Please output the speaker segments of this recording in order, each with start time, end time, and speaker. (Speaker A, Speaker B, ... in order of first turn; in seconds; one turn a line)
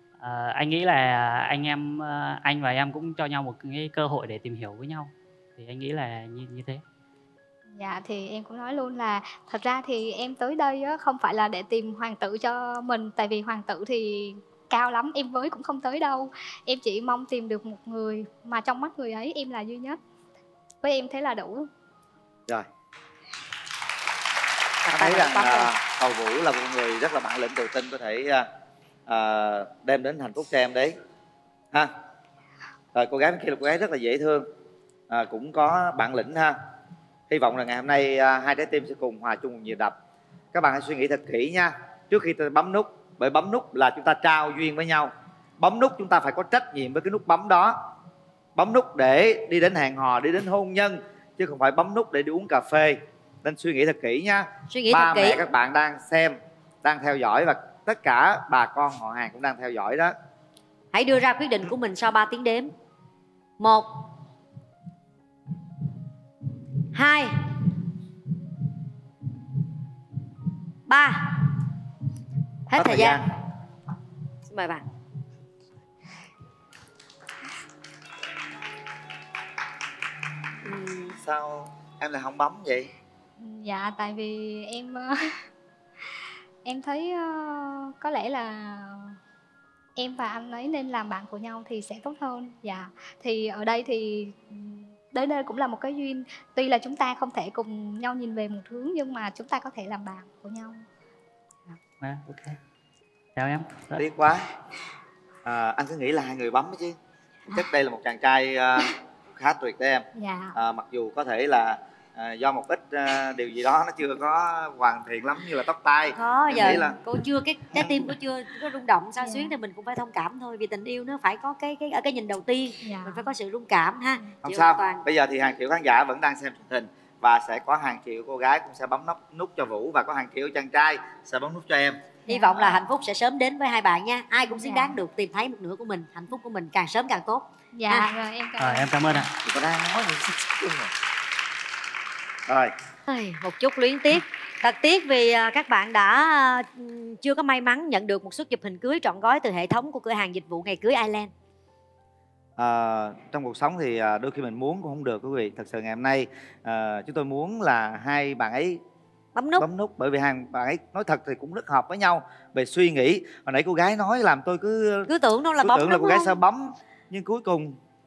Speaker A: 0.2-6.8
Speaker B: 7.8-20.0
Speaker B: 20.8-21.7
Speaker C: 24.9-25.8
Speaker D: 24.9-28.5
Speaker D: 29.1-31.0
Speaker D: 32.9-34.5
Speaker D: 35.1-36.6
Speaker D: 37.3-40.0
Speaker D: 40.5-47.8
Speaker D: 48.6-60.1
Speaker C: 54.7-55.4
Speaker C: 60.9-62.7
Speaker C: 63.6-64.0
Speaker C: 66.9-67.3
Speaker C: 70.9-71.4
Speaker C: 72.7-73.2
Speaker D: 72.7-73.2
Speaker C: 74.5-74.8
Speaker C: 80.7-81.2
Speaker D: 81.2-82.9
Speaker B: 83.4-85.3
Speaker B: 86.7-89.2
Speaker B: 90.0-100.8
Speaker A: 102.0-102.6
Speaker A: 103.4-104.0
Speaker D: 104.0-104.5
Speaker D: 105.5-107.0
Speaker D: 107.5-117.0
Speaker B: 110.2-110.5
Speaker C: 116.2-125.0
Speaker B: 119.2-119.5
Speaker B: 122.8-123.3
Speaker D: 124.4-132.2
Speaker B: 132.3-132.8
Speaker C: 132.3-138.1
Speaker B: 134.4-135.0
Speaker B: 137.7-138.9
Speaker A: 138.6-139.3
Speaker D: 139.4-140.9
Speaker D: 142.5-142.7
Speaker C: 143.1-151.3
Speaker D: 152.6-158.8
Speaker C: 159.3-159.7
Speaker D: 159.6-167.8
Speaker C: 165.1-166.3